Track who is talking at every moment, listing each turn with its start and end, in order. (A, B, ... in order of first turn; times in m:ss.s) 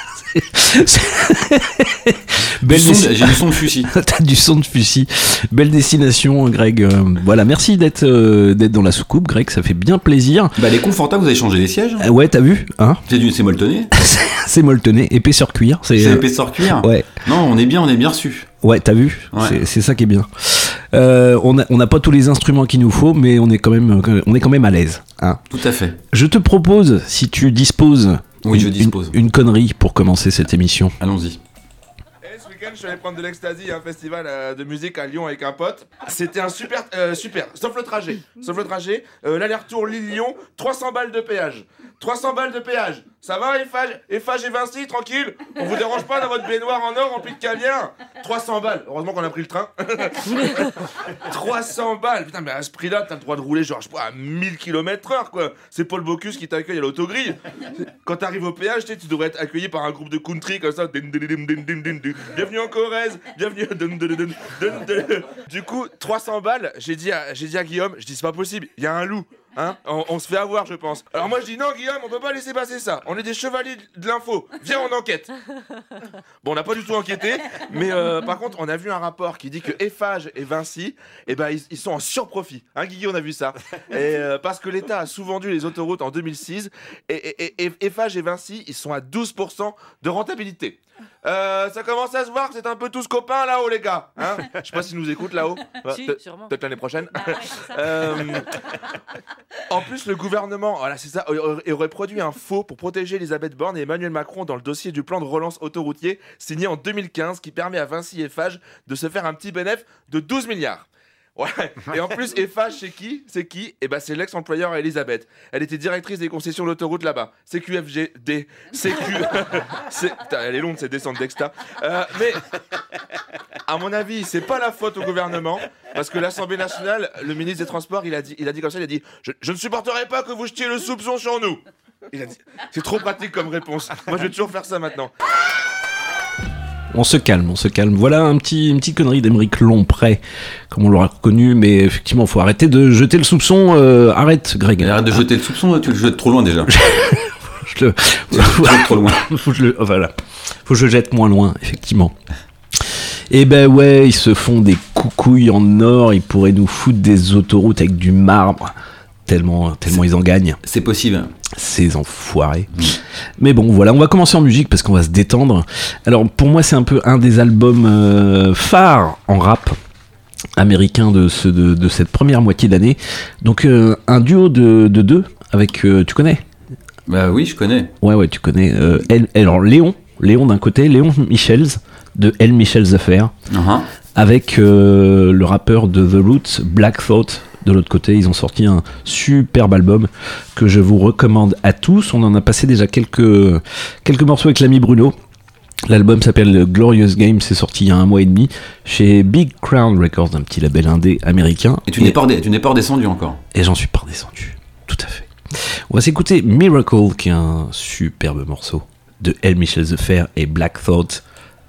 0:00.2-0:10.6 A
0:02.6-0:03.9 B
0:10.6-0:12.0 B
0:12.0-0:13.0 A
0:13.1-0:13.9 B
0:14.0-0:17.2 A
0:16.0-0:18.5 B
0:18.6-0:25.4 A
0:19.3-0:19.6 B
0:25.5-0:26.0 B
0:26.1-0:30.9 A
0:28.4-0:29.2 B
0:31.0-0:31.4 B
0:32.2-0:50.6 C
0:51.3-0:57.4 C
0:58.0-1:15.3 C
1:16.4-1:38.5 C
1:39.7-2:02.4 C
2:03.7-2:15.1 C
2:16.9-2:20.2 A
2:20.7-2:25.2 A
2:24.8-2:26.7 B
2:26.7-2:32.2 A
2:28.3-2:29.2 B
2:32.8-2:38.7 A
2:39.3-2:40.6 A
2:40.6-2:41.3 B
2:41.5-2:42.7 A
2:43.4-2:49.8 A
2:50.6-2:56.4 A
2:57.1-2:57.9 B
2:58.0-3:03.3 A
3:03.5-3:03.9 B
3:04.2-3:15.2 A
3:15.9-3:22.2 A
3:21.9-3:23.4 B
3:23.5-3:31.2 A